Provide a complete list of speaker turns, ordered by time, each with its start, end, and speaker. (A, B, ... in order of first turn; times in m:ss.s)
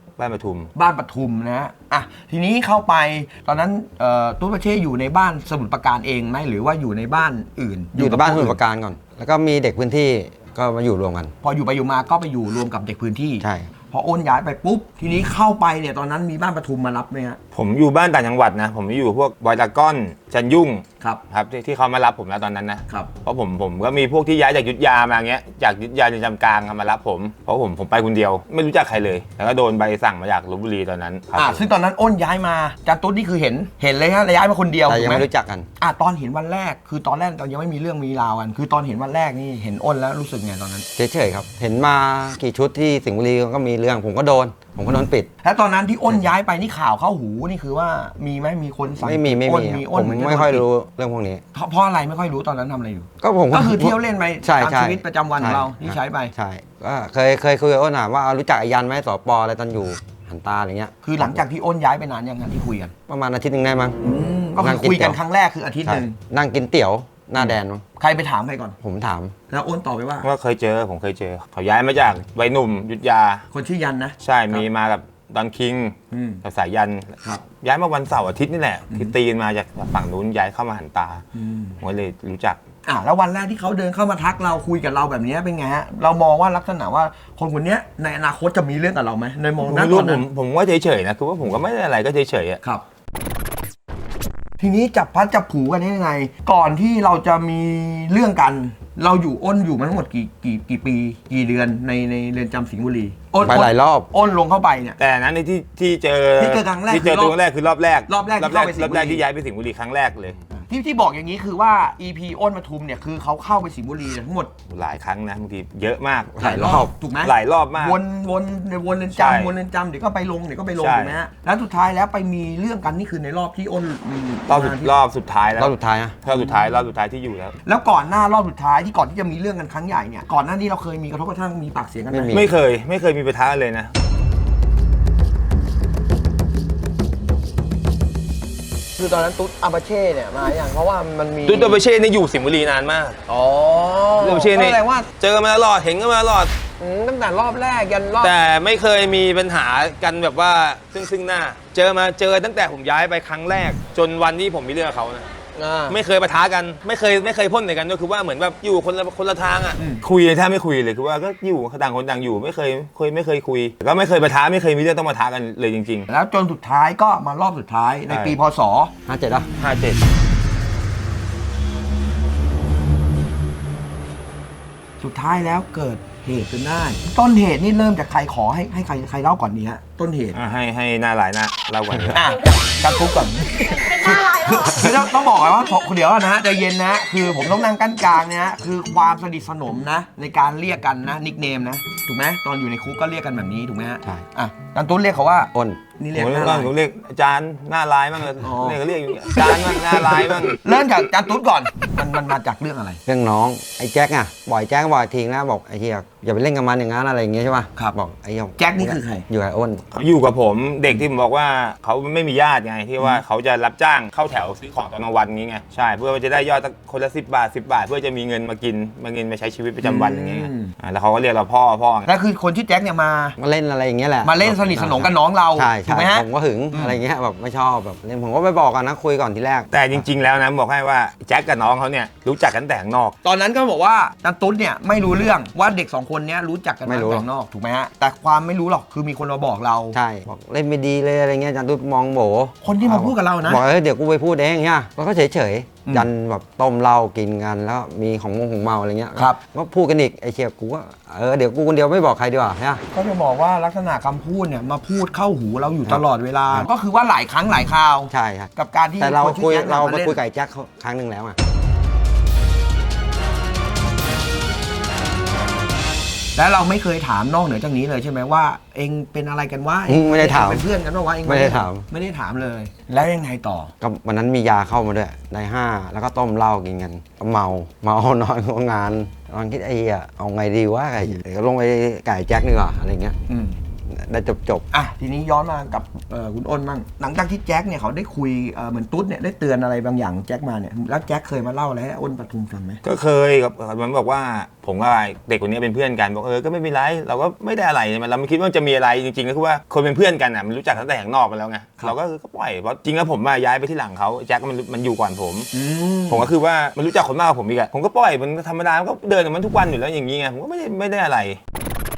0:00.2-0:00.7 A
0:00.7-0:08.6 B
0:08.0-0:11.3 C
0:11.4-0:17.4 B
0:13.4-0:13.7 C
0:17.5-0:31.6 A
0:31.4-0:35.2 B
0:34.8-0:35.7 C
0:35.8-0:40.8 B
0:41.0-0:45.3 C
0:45.4-0:50.6 B
0:49.0-0:51.4 C
0:51.5-0:56.3 B
0:53.2-1:01.4 C
1:01.0-1:02.9 B
1:03.1-1:04.0 C
1:04.0-1:06.2 B
1:04.6-1:05.2 C
1:05.8-1:07.8 C
1:08.0-1:08.8 B
1:08.8-1:09.3 C
1:09.5-1:10.2 B
1:10.2-1:13.4 A
1:13.5-1:14.2 B
1:14.2-1:21.2 A
1:16.1-1:16.4 B
1:21.3-1:21.8 B
1:21.8-1:22.6 A
1:22.8-1:30.2 B
1:29.6-1:32.6 A
1:34.6-1:45.0 B
1:43.4-1:44.1 C
1:45.0-1:50.4 A
1:46.4-1:47.3 B
1:48.1-1:49.2 B
1:50.5-1:54.5 B
1:54.7-1:56.4 A
1:56.3-1:56.9 C
1:56.4-2:04.9 B
1:57.2-1:58.0 A
1:59.1-1:59.5 A
2:00.8-2:01.2 A
2:04.5-2:05.7 A
2:05.6-2:06.2 C
2:06.2-2:07.5 A
2:07.6-2:12.4 B
2:12.1-2:12.5 C
2:12.3-2:13.9 A
2:19.0-2:21.8 B
2:21.4-2:23.2 A
2:23.3-2:25.1 B
2:24.2-2:26.5 A
2:26.8-2:28.3 B
2:28.2-2:35.3 A
2:35.5-2:36.0 B
2:35.9-2:46.1 A
2:39.8-2:40.0 B
2:46.1-2:48.9 B
2:48.1-2:48.4 A
2:49.1-2:49.5 C
2:49.6-2:50.0 A
2:55.0-3:00.4 B
3:00.3-3:02.3 A
3:02.1-3:16.7 B
3:15.5-3:15.8 C
3:16.1-3:20.6 A
3:18.4-3:18.8 B
3:19.4-3:23.0 B
3:23.0-3:29.8 C
3:28.6-3:29.2 B
3:29.9-3:42.1 A
3:39.8-3:40.7 B
3:42.0-3:43.4 B
3:43.4-3:50.0 C
3:44.2-3:47.0 B
3:49.7-3:53.1 A
3:53.2-4:00.0 B
3:56.8-3:57.2 C
3:59.9-4:12.8 C
4:02.6-4:03.6 B
4:12.9-4:20.2 B
4:15.8-4:16.7 C
4:18.1-4:21.4 C
4:26.4-4:33.7 B
4:29.9-4:30.6 C
4:31.2-4:31.8 C
4:33.8-4:43.2 C
4:43.3-4:43.6 B
4:43.9-4:44.6 C
4:44.7-4:52.8 B
4:52.8-5:05.5 A
5:05.5-5:06.3 B
5:06.1-5:11.4 A